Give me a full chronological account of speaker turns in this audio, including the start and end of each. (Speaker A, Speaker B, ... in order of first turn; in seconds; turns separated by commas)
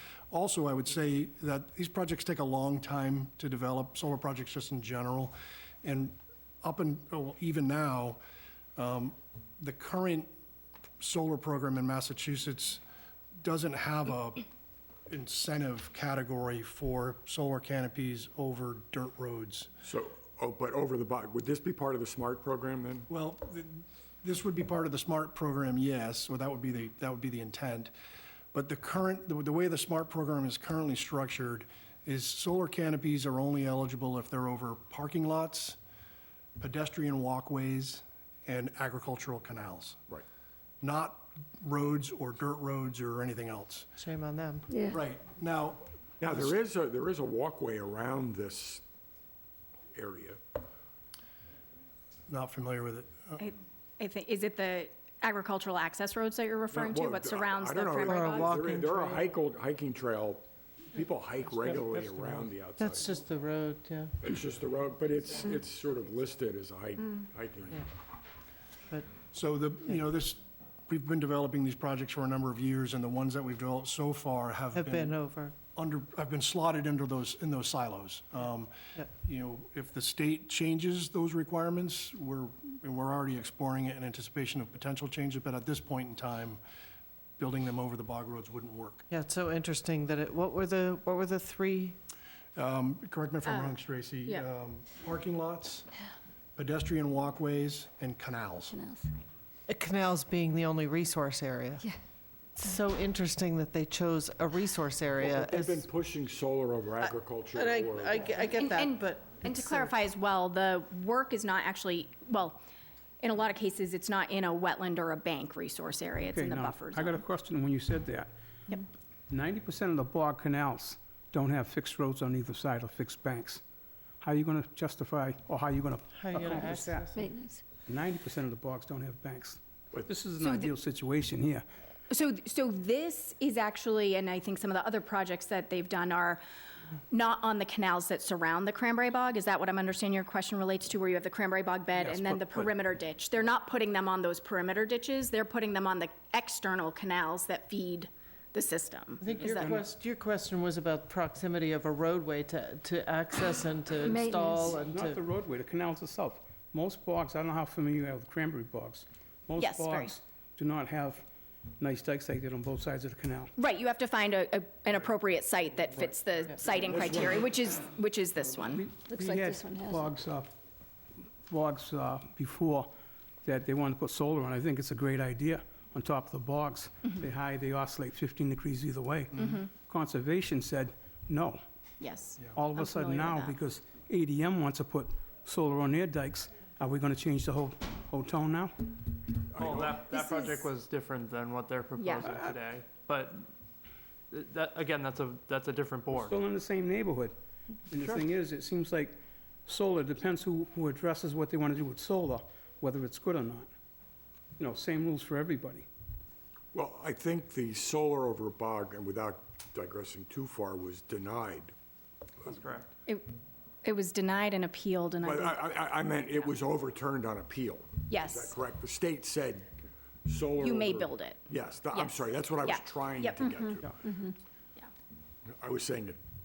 Speaker A: 0.3-8.2, Speaker A: 8.8-10.3, Speaker A: 11.0-12.8, Speaker A: 13.4-14.4, Speaker A: 15.1-19.7, Speaker B: 19.8-23.1, Speaker A: 23.1-27.9, Speaker A: 28.5-35.8, Speaker A: 36.6-40.0, Speaker A: 40.8-43.9, Speaker C: 44.0-44.7, Speaker D: 44.7-45.0, Speaker A: 44.9-46.5, Speaker B: 46.2-48.8, Speaker B: 49.9-50.4, Speaker A: 52.3-53.4, Speaker E: 53.4-58.5, Speaker B: 56.7-63.1, Speaker C: 58.0-59.3, Speaker C: 62.8-64.2, Speaker B: 64.2-67.8, Speaker A: 69.3-75.2, Speaker C: 74.7-75.5, Speaker A: 75.7-86.6, Speaker A: 87.4-89.0, Speaker C: 89.1-92.0, Speaker A: 92.5-95.9, Speaker E: 93.5-93.7, Speaker A: 96.5-98.8, Speaker D: 98.8-99.0, Speaker C: 99.7-101.9, Speaker C: 102.5-105.8, Speaker B: 105.2-108.3, Speaker C: 107.0-109.9, Speaker E: 108.5-112.6, Speaker E: 113.2-117.2, Speaker F: 116.2-118.3, Speaker F: 119.3-123.6, Speaker F: 124.2-127.1, Speaker C: 126.2-127.3, Speaker D: 127.2-127.6, Speaker F: 127.8-131.6, Speaker E: 130.4-130.7, Speaker E: 132.1-136.4, Speaker E: 137.1-149.8, Speaker F: 142.0-142.7, Speaker C: 149.2-155.2, Speaker D: 154.0-154.7, Speaker F: 154.7-161.2, Speaker E: 159.6-160.1, Speaker F: 161.8-163.5, Speaker E: 163.6-168.8, Speaker B: 166.8-167.5, Speaker F: 168.7-170.5, Speaker D: 169.0-170.1, Speaker F: 171.4-172.9, Speaker F: 173.4-181.6, Speaker E: 179.4-179.7, Speaker E: 182.0-183.6, Speaker F: 182.5-188.9, Speaker B: 189.5-190.1, Speaker G: 189.6-193.4, Speaker E: 190.1-190.6, Speaker E: 192.0-192.3, Speaker F: 192.2-192.5, Speaker G: 194.3-196.3, Speaker F: 196.1-197.3, Speaker F: 197.9-199.1, Speaker F: 199.7-203.7, Speaker F: 204.6-205.9, Speaker B: 206.7-211.7, Speaker G: 212.4-212.9, Speaker E: 213.8-215.6, Speaker B: 215.2-219.7, Speaker E: 218.1-218.5, Speaker B: 220.2-224.0, Speaker E: 220.6-224.9, Speaker B: 225.5-226.2